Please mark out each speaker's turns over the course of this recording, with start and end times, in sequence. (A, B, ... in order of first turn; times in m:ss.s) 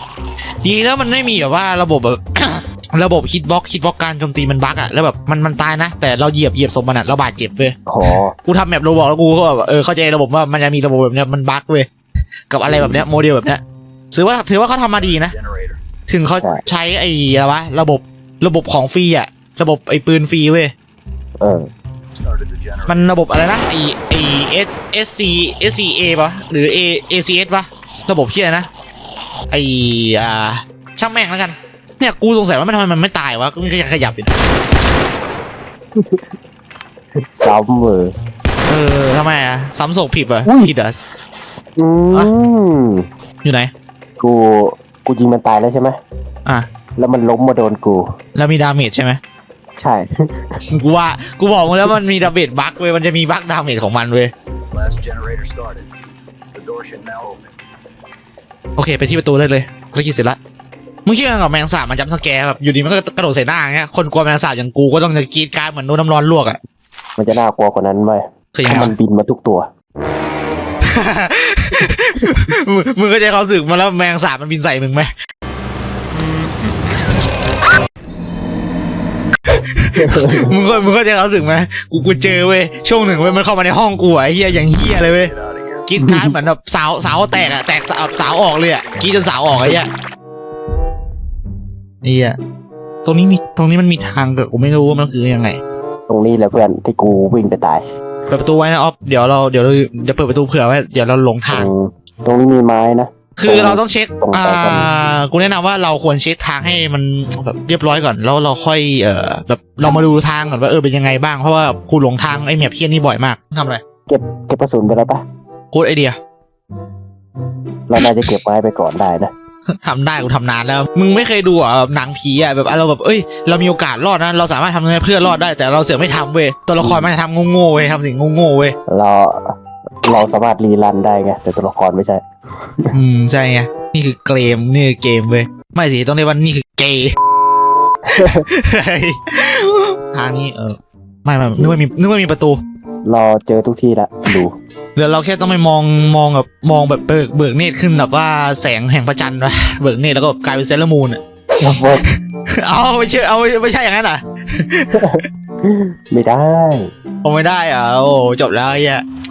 0:00.6-0:11.9 A
0:07.9-0:08.3 B
0:12.5-0:15.3 A
0:12.7-0:13.0 B
0:14.8-0:15.8 C
0:16.1-0:20.7 A
0:21.4-0:21.7 B
0:22.2-0:24.5 C
0:22.9-0:28.7 A
0:29.5-0:34.4 A
0:36.0-0:36.3 B
0:37.2-0:38.1 B
0:38.6-0:41.0 A
0:40.4-0:43.0 B
0:43.4-0:43.7 A
0:44.2-0:46.0 B
0:47.0-0:48.1 B
0:48.3-0:49.2 A
0:49.8-0:50.1 B
0:50.7-0:54.3 A
0:54.7-0:55.9 C
0:56.5-0:57.5 C
0:58.8-1:00.4 A
1:01.0-1:06.6 A
1:07.2-1:09.7 B
1:08.5-1:08.9 A
1:10.9-1:15.1 A
1:19.5-1:25.3 A
1:20.0-1:20.4 B
1:25.0-1:25.9 C
1:25.8-1:29.9 A
1:26.0-1:26.4 B
1:28.0-1:29.6 C
1:32.0-1:32.4 A
1:33.0-1:35.6 A
1:36.1-1:37.8 B
1:38.3-1:41.7 A
1:41.5-1:44.9 B
1:43.4-1:53.8 A
1:54.1-1:55.2 B
1:55.7-1:56.2 A
1:57.9-1:59.3 B
1:58.0-1:58.3 A
1:59.7-2:08.8 A
2:06.8-2:07.1 B
2:08.9-2:12.2 B
2:12.9-2:17.1 A
2:18.1-2:18.4 B
2:18.2-2:22.6 A
2:23.0-2:24.5 B
2:25.0-2:31.2 A
2:31.6-2:32.0 B
2:32.0-2:35.2 A
2:34.9-2:36.9 B
2:37.2-2:39.0 A